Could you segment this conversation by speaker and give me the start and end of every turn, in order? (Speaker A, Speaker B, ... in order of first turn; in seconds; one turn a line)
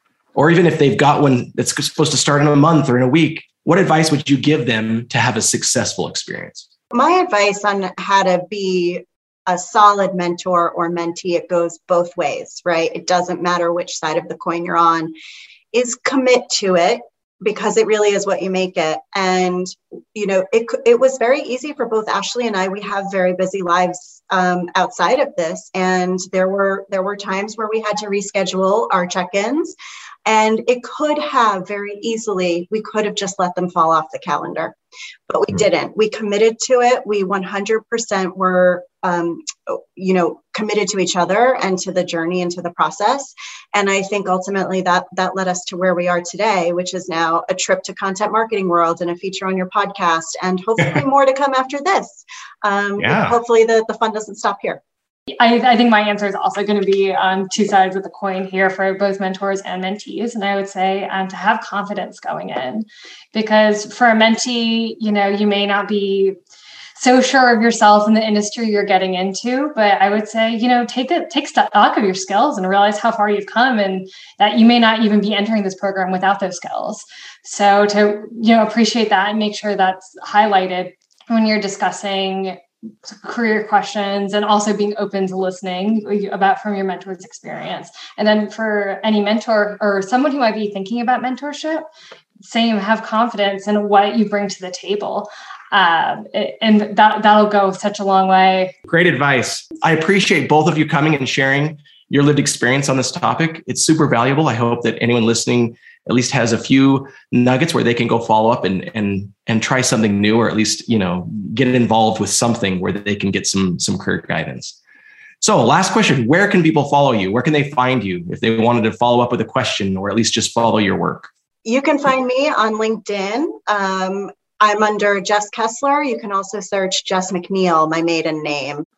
Speaker A: 0.3-6.7
Speaker B: 6.9-15.1
Speaker B: 15.7-29.8
Speaker B: 30.3-34.8
Speaker B: 35.3-54.8
Speaker A: 53.0-53.4
Speaker C: 55.3-66.4
Speaker C: 67.0-91.9
Speaker C: 92.4-98.8
Speaker A: 98.9-114.8
Speaker A: 115.4-121.3
Speaker B: 121.7-128.8